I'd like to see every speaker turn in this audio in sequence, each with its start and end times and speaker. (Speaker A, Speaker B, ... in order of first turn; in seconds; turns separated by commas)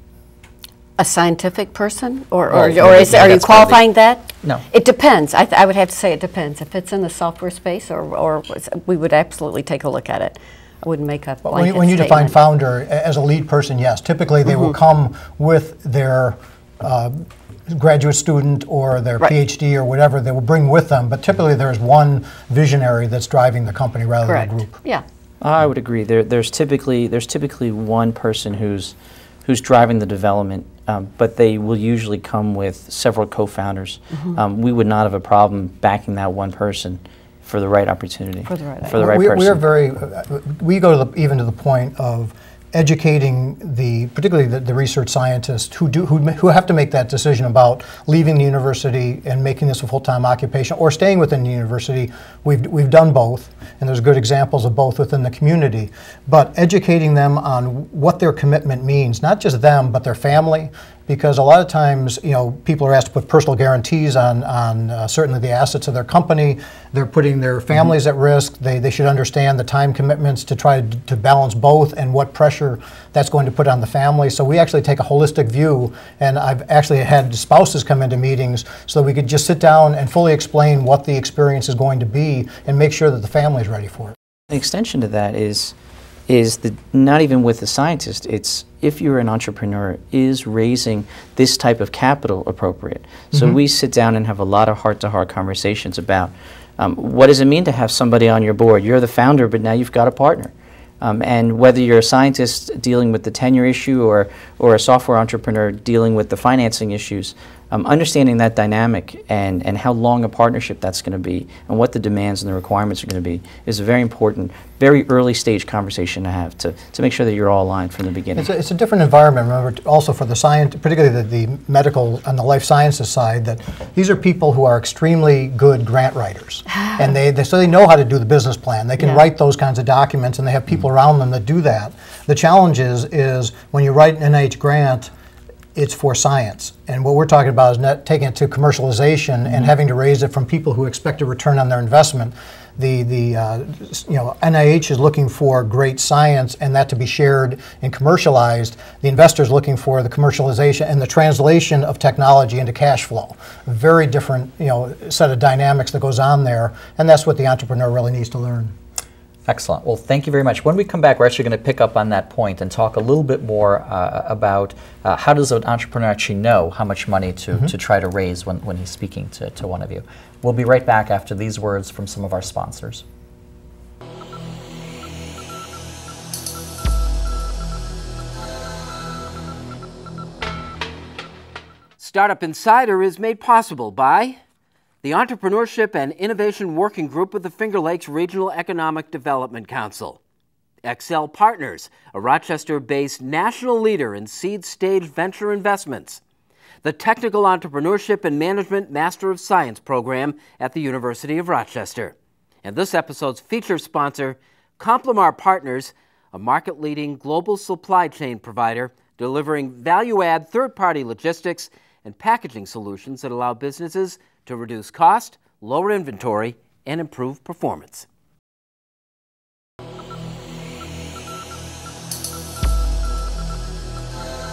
Speaker A: 1.0-12.3, Speaker B: 2.5-3.8, Speaker C: 11.4-24.8, Speaker A: 24.2-25.0, Speaker D: 25.4-28.9, Speaker D: 29.4-39.6, Speaker A: 38.5-39.0, Speaker C: 38.9-84.1, Speaker D: 84.5-85.7, Speaker D: 86.3-118.5, Speaker C: 118.3-135.1, Speaker C: 135.7-158.7, Speaker B: 159.4-173.0, Speaker E: 182.0-184.4, Speaker E: 185.0-190.2, Speaker E: 190.8-196.2, Speaker E: 196.8-218.1